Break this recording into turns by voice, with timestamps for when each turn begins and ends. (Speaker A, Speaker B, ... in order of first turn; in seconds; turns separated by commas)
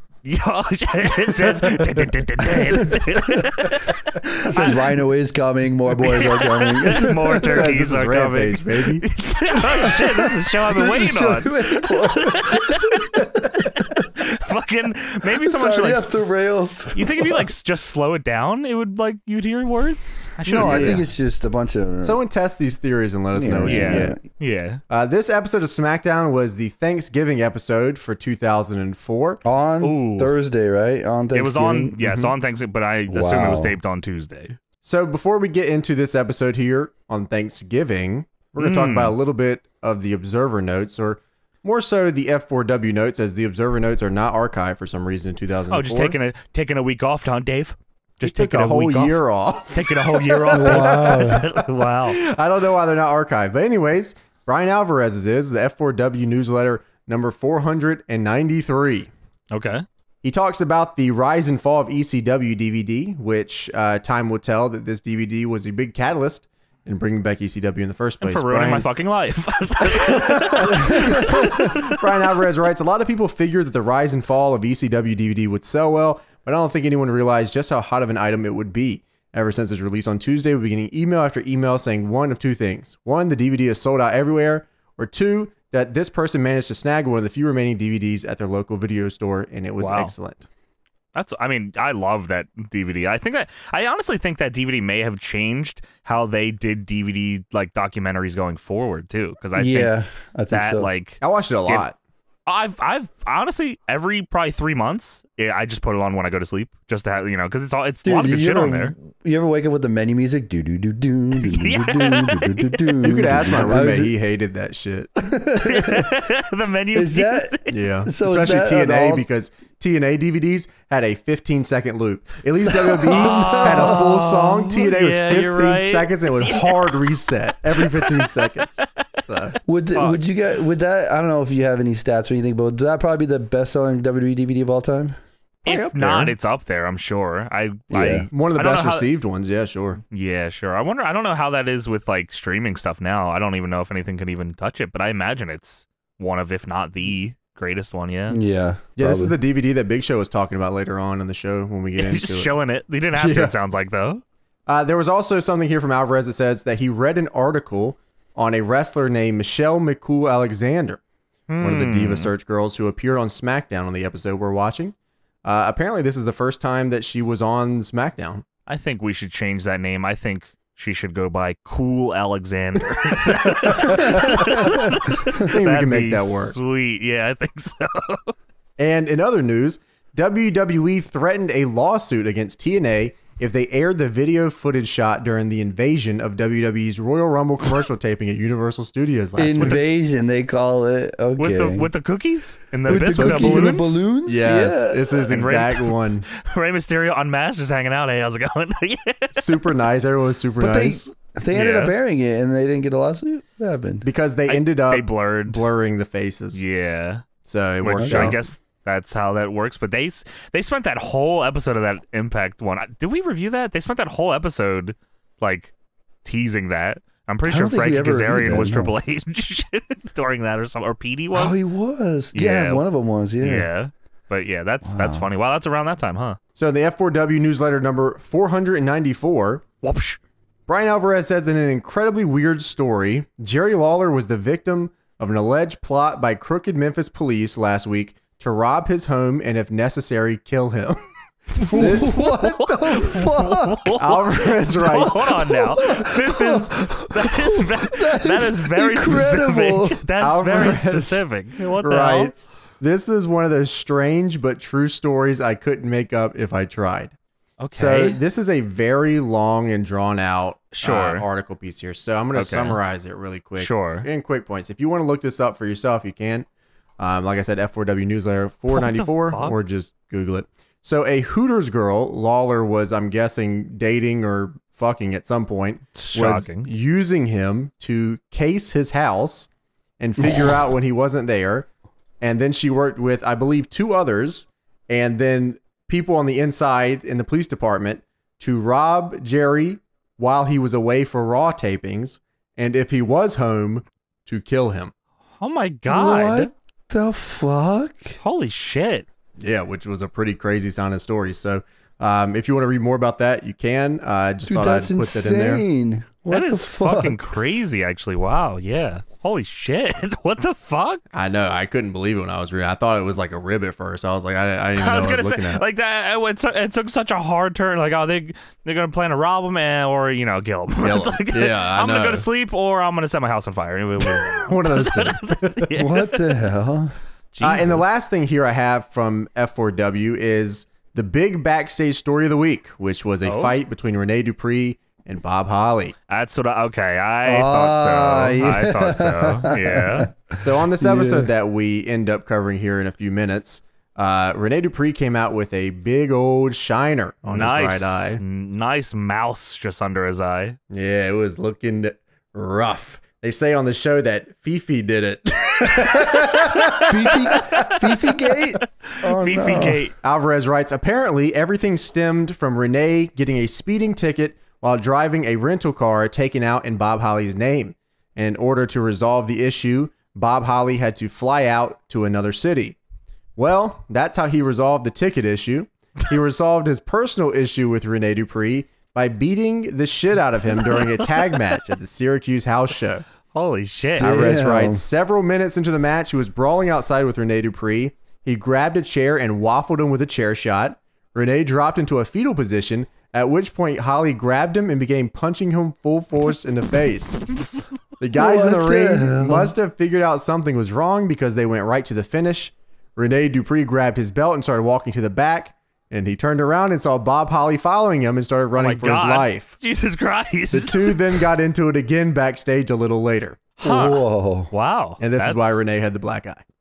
Speaker A: 0.2-4.8, Speaker B: 2.7-2.9, Speaker B: 4.3-7.8, Speaker A: 6.0-16.4, Speaker C: 7.4-9.0, Speaker B: 9.7-14.1, Speaker B: 15.4-17.5, Speaker A: 16.9-21.1, Speaker B: 20.4-22.2, Speaker C: 20.6-21.0, Speaker C: 22.0-24.2, Speaker B: 23.3-24.2, Speaker A: 23.6-24.8, Speaker C: 24.9-29.4, Speaker B: 29.4-32.0, Speaker A: 29.8-30.3, Speaker A: 31.3-34.6, Speaker C: 32.0-32.3, Speaker B: 33.1-33.8, Speaker C: 34.8-46.1, Speaker A: 38.6-39.1, Speaker A: 45.7-49.2, Speaker C: 48.2-59.1, Speaker A: 49.7-52.2, Speaker B: 50.5-51.4, Speaker A: 59.5-59.8, Speaker C: 60.2-68.9, Speaker A: 68.2-72.1, Speaker C: 69.8-90.5, Speaker A: 89.8-90.1, Speaker A: 91.1-99.9, Speaker B: 99.6-100.9, Speaker A: 100.5-101.8, Speaker C: 101.2-102.0, Speaker A: 102.5-108.9, Speaker B: 108.0-114.1, Speaker A: 111.4-113.0, Speaker C: 113.0-115.1, Speaker B: 115.2-116.2, Speaker A: 115.6-117.7, Speaker B: 116.9-119.2, Speaker C: 117.7-129.5, Speaker A: 123.0-126.9, Speaker B: 123.1-124.3, Speaker A: 127.8-129.0, Speaker B: 129.7-135.2, Speaker A: 129.9-130.2, Speaker A: 135.6-139.1, Speaker C: 135.7-136.3, Speaker B: 137.9-138.3, Speaker C: 138.3-140.0, Speaker A: 140.1-148.4, Speaker B: 148.3-149.3, Speaker C: 149.0-152.5, Speaker A: 152.0-154.2, Speaker C: 153.1-153.5, Speaker C: 154.7-161.0, Speaker A: 161.5-162.3, Speaker C: 161.6-168.4, Speaker A: 168.7-178.3, Speaker C: 173.5-176.6, Speaker C: 178.8-189.8, Speaker B: 189.4-191.9, Speaker A: 191.4-194.0, Speaker B: 192.9-195.4, Speaker C: 193.0-196.2, Speaker A: 195.3-199.5, Speaker C: 199.3-201.1, Speaker B: 200.6-204.0, Speaker A: 201.5-201.9, Speaker C: 204.0-206.6, Speaker A: 204.5-205.7, Speaker A: 206.5-207.2, Speaker C: 207.4-208.4, Speaker A: 207.8-215.7, Speaker B: 207.8-208.4, Speaker A: 216.2-221.6, Speaker B: 217.5-218.9, Speaker B: 221.3-223.7, Speaker A: 222.3-222.8, Speaker A: 223.4-226.4, Speaker B: 224.8-225.2, Speaker C: 226.6-229.6, Speaker A: 229.8-230.2, Speaker C: 230.7-241.0, Speaker C: 241.6-242.1, Speaker A: 241.6-252.3, Speaker B: 241.7-243.9, Speaker C: 244.0-245.4, Speaker B: 245.4-250.0, Speaker C: 250.2-251.2, Speaker C: 251.8-257.1, Speaker A: 257.6-258.2, Speaker C: 257.7-266.5, Speaker A: 260.8-261.2, Speaker A: 262.3-262.8, Speaker A: 263.6-264.1, Speaker C: 267.0-279.5, Speaker A: 268.7-269.6, Speaker A: 275.9-276.7, Speaker C: 280.0-281.7, Speaker C: 282.2-294.9, Speaker A: 295.4-296.5, Speaker B: 295.9-298.2, Speaker A: 298.2-299.1, Speaker C: 299.4-305.6, Speaker B: 304.5-307.2, Speaker A: 306.3-311.0, Speaker C: 311.1-315.6, Speaker A: 314.8-326.2, Speaker C: 320.8-322.2, Speaker C: 324.0-325.7, Speaker B: 325.7-326.9, Speaker A: 327.3-327.9, Speaker C: 327.4-335.9, Speaker A: 333.2-333.6, Speaker A: 336.1-340.1, Speaker B: 337.2-341.3, Speaker C: 340.4-348.2, Speaker A: 347.3-350.6, Speaker C: 350.7-357.7, Speaker B: 356.8-359.9, Speaker A: 359.1-359.9, Speaker C: 360.0-372.8, Speaker C: 373.4-383.1, Speaker A: 383.3-384.2, Speaker B: 383.9-384.8, Speaker C: 384.0-397.2, Speaker C: 398.0-409.5, Speaker B: 398.1-399.5, Speaker A: 408.6-411.0, Speaker C: 410.5-413.4, Speaker A: 413.6-415.6, Speaker B: 413.6-414.5, Speaker C: 415.0-416.4